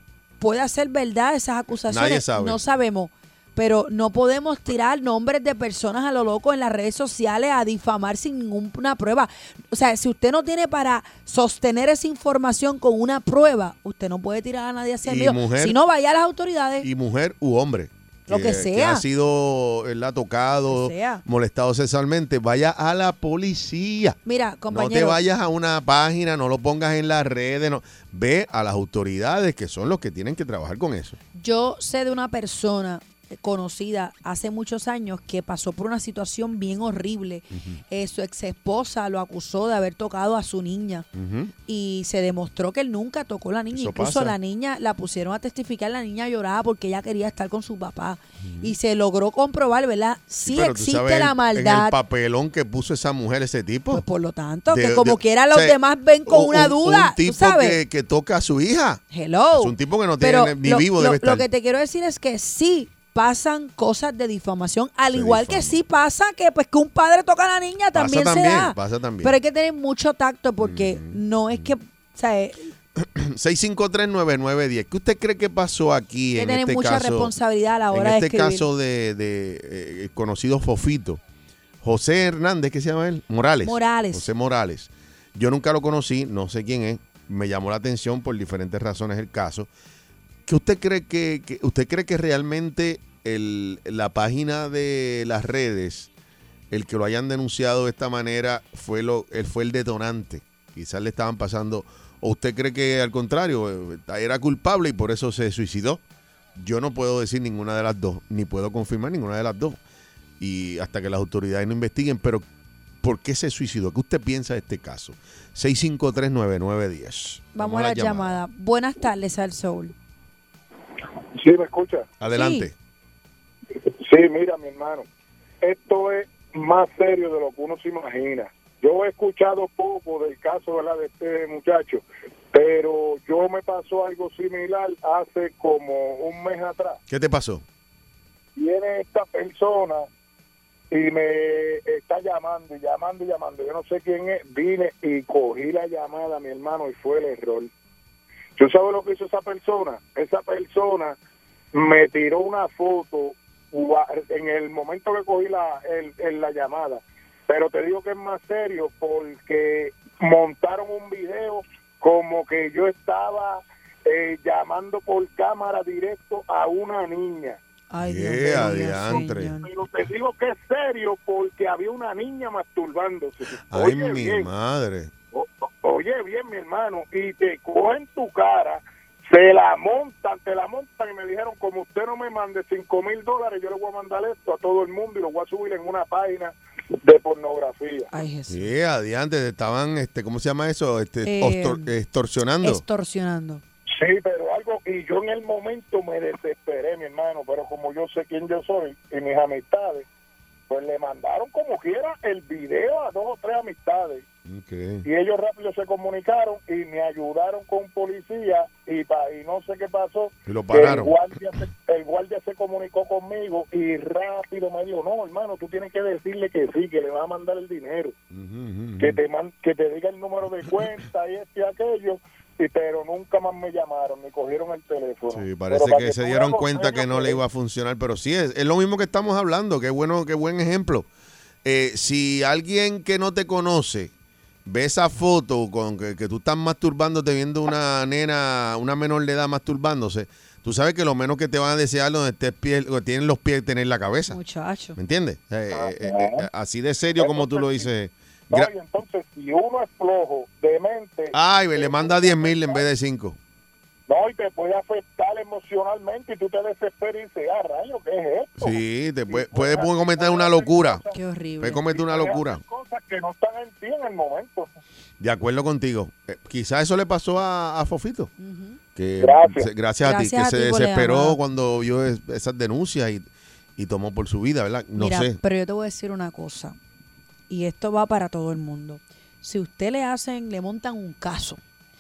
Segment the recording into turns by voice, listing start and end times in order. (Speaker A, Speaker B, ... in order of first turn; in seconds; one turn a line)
Speaker A: 0.4-16.9
Speaker B: 1.9-2.6
Speaker B: 15.0-15.8
Speaker B: 16.8-24.2
Speaker A: 18.3-19.0
Speaker A: 20.7-21.2
Speaker A: 24.2-25.2
Speaker B: 24.7-31.2
Speaker A: 31.3-41.1
Speaker B: 37.5-37.8
Speaker B: 41.1-41.5
Speaker A: 41.7-52.0
Speaker B: 43.7-44.4
Speaker B: 48.4-48.7
Speaker B: 50.4-54.0
Speaker A: 53.9-57.8
Speaker B: 54.7-61.5
Speaker A: 59.1-72.7
Speaker B: 65.1-65.8
Speaker B: 67.9-69.3
Speaker B: 70.6-71.7
Speaker B: 73.0-77.3
Speaker A: 76.4-78.7
Speaker B: 77.9-81.2
Speaker B: 81.8-89.7
Speaker A: 83.6-84.3
Speaker B: 90.5-96.1
Speaker B: 96.7-106.0
Speaker B: 106.5-109.8
Speaker B: 110.4-112.5
Speaker B: 113.0-118.4
Speaker A: 117.5-119.9
Speaker C: 121.4-122.1
Speaker B: 122.2-122.7
Speaker A: 122.3-122.7
Speaker C: 124.0-125.1
Speaker C: 125.6-137.0
Speaker B: 137.1-137.6
Speaker C: 138.6-140.1
Speaker C: 140.9-147.7
Speaker C: 148.6-151.2
Speaker C: 151.7-167.6
Speaker A: 167.9-169.7
Speaker B: 168.0-169.6
Speaker C: 168.9-174.5
Speaker B: 173.7-175.1
Speaker C: 175.3-188.1
Speaker A: 188.1-188.7
Speaker B: 188.5-192.8
Speaker A: 191.2-191.9
Speaker A: 192.6-193.6
Speaker C: 193.9-200.1
Speaker C: 200.7-204.2
Speaker B: 204.5-205.1
Speaker C: 205.0-218.2
Speaker B: 210.5-211.2
Speaker B: 218.3-219.2
Speaker C: 219.0-227.4
Speaker B: 225.3-231.1
Speaker B: 231.7-234.1
Speaker B: 234.7-244.4
Speaker A: 244.3-245.0
Speaker B: 245.0-248.7
Speaker C: 245.7-246.5
Speaker C: 247.2-247.9
Speaker C: 248.5-252.8
Speaker B: 251.3-253.4
Speaker C: 254.1-261.2
Speaker B: 258.6-261.0
Speaker A: 261.1-261.9
Speaker B: 261.6-262.6
Speaker C: 261.9-264.7
Speaker B: 265.2-268.3
Speaker A: 268.4-268.8
Speaker B: 269.0-275.4
Speaker C: 269.2-269.7
Speaker A: 270.0-271.4
Speaker A: 275.0-276.8
Speaker A: 277.5-281.6